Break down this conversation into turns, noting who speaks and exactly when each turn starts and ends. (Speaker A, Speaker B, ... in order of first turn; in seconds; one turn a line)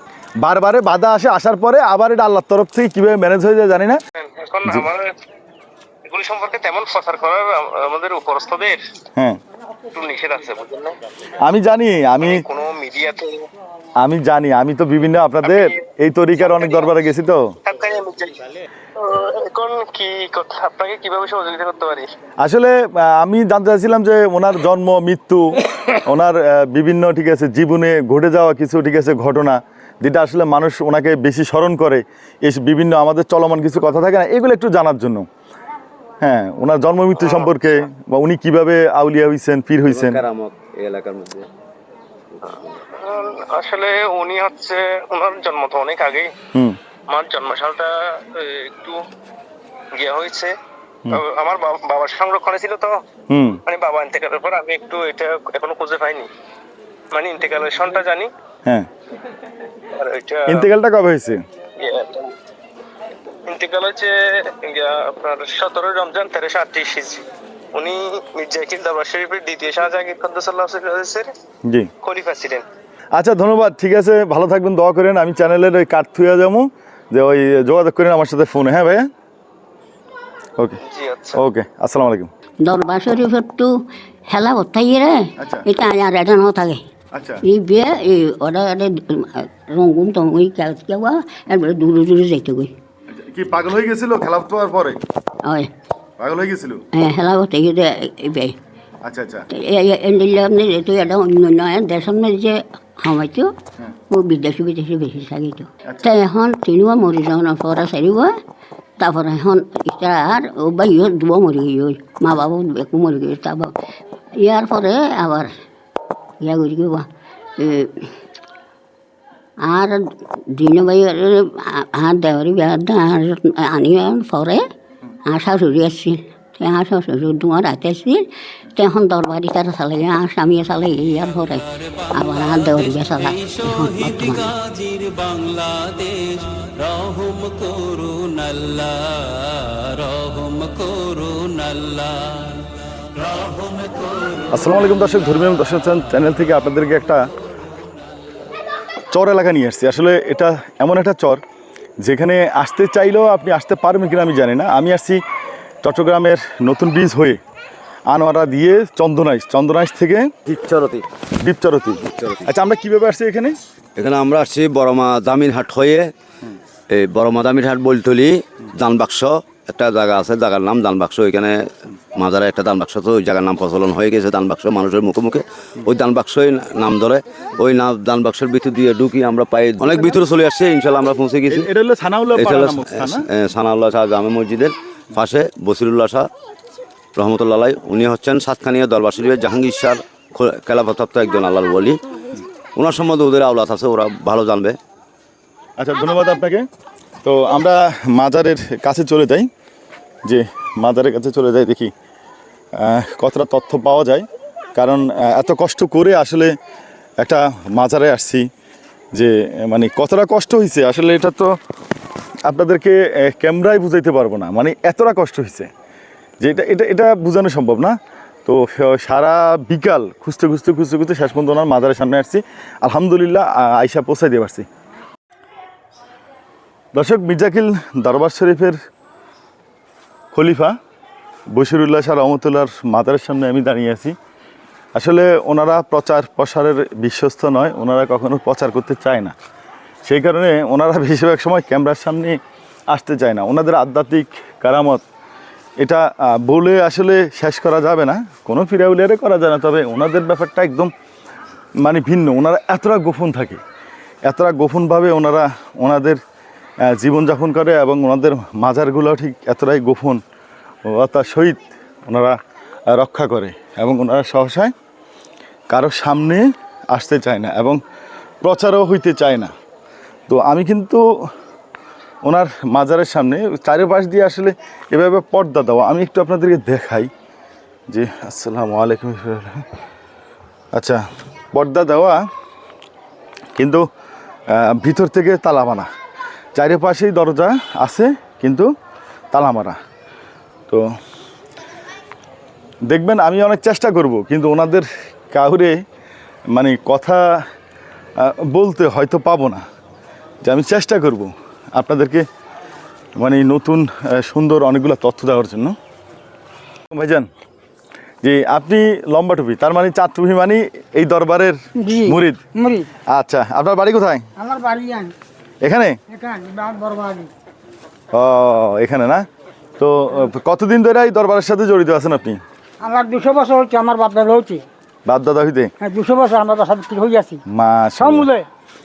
Speaker A: 0.4-4.0
Speaker B: 4.2-5.1
Speaker B: 6.1-8.8
Speaker B: 9.9-11.0
Speaker A: 11.4-12.4
Speaker B: 12.2-13.5
Speaker A: 14.0-17.6
Speaker B: 15.4-15.8
Speaker B: 16.4-16.9
Speaker B: 17.6-22.1
Speaker A: 22.4-35.2
Speaker A: 36.2-40.2
Speaker C: 39.9-41.5
Speaker B: 42.4-46.3
Speaker B: 47.1-49.0
Speaker B: 49.9-50.5
Speaker B: 51.1-53.0
Speaker A: 53.3-53.6
Speaker B: 53.7-56.3
Speaker B: 57.1-58.3
Speaker B: 60.0-60.6
Speaker A: 60.5-61.4
Speaker B: 61.8-62.3
Speaker B: 63.5-71.3
Speaker A: 71.7-71.9
Speaker B: 72.0-72.6
Speaker A: 73.1-79.1
Speaker B: 80.8-81.4
Speaker A: 81.3-82.3
Speaker D: 82.6-83.7
Speaker D: 84.3-86.8
Speaker A: 85.4-85.7
Speaker A: 87.1-87.4
Speaker D: 87.5-92.7
Speaker A: 93.1-95.0
Speaker A: 96.2-96.8
Speaker D: 97.0-98.5
Speaker A: 99.0-99.5
Speaker D: 99.6-103.5
Speaker D: 104.1-108.3
Speaker D: 109.0-113.7
Speaker D: 114.4-115.5
Speaker D: 116.4-117.1
Speaker D: 117.6-118.1
Speaker D: 119.6-120.0
Speaker D: 120.5-124.6
Speaker D: 125.3-128.2
Speaker D: 128.8-134.6
Speaker E: 131.9-144.6
Speaker A: 144.5-147.2
Speaker A: 149.1-151.4
Speaker A: 152.0-155.2
Speaker A: 155.8-157.4
Speaker A: 158.1-160.3
Speaker C: 160.5-161.1
Speaker A: 161.4-163.6
Speaker C: 162.1-162.4
Speaker C: 164.0-166.1
Speaker C: 166.9-171.6
Speaker C: 172.2-181.7
Speaker A: 181.5-183.3
Speaker C: 182.3-186.3
Speaker C: 187.2-192.0
Speaker C: 192.8-194.8
Speaker A: 195.8-196.7
Speaker A: 197.2-199.5
Speaker A: 200.3-201.9
Speaker A: 202.8-206.5
Speaker A: 207.2-208.5
Speaker A: 209.1-211.6
Speaker A: 212.5-215.7
Speaker A: 216.4-217.9
Speaker A: 218.5-224.7
Speaker A: 226.9-228.8
Speaker A: 230.3-230.8
Speaker A: 231.5-234.2
Speaker A: 234.9-239.3
Speaker A: 240.1-242.4
Speaker A: 242.9-245.0
Speaker A: 245.8-250.9
Speaker A: 251.8-253.6
Speaker A: 254.2-256.2
Speaker A: 256.8-260.2
Speaker A: 260.9-262.4
Speaker A: 262.9-264.7
Speaker A: 265.7-267.8
Speaker A: 268.4-269.5
Speaker A: 270.3-271.0
Speaker A: 272.2-277.1
Speaker A: 277.9-279.6
Speaker A: 280.7-281.0
Speaker A: 281.5-282.2
Speaker A: 283.6-283.8
Speaker A: 284.5-285.9
Speaker A: 286.6-288.7
Speaker A: 289.3-289.8
Speaker A: 292.9-295.8
Speaker A: 296.5-297.2
Speaker A: 298.2-299.6
Speaker A: 300.4-302.3
Speaker A: 303.2-305.8
Speaker A: 306.9-307.3
Speaker A: 308.2-312.4
Speaker F: 311.8-312.9
Speaker A: 313.1-314.2
Speaker F: 314.4-315.1
Speaker A: 315.6-316.0
Speaker F: 316.1-317.3
Speaker A: 318.1-319.2
Speaker A: 319.8-322.4
Speaker F: 322.8-324.6
Speaker A: 325.1-325.7
Speaker F: 325.8-327.4
Speaker A: 327.5-328.3
Speaker F: 328.0-328.5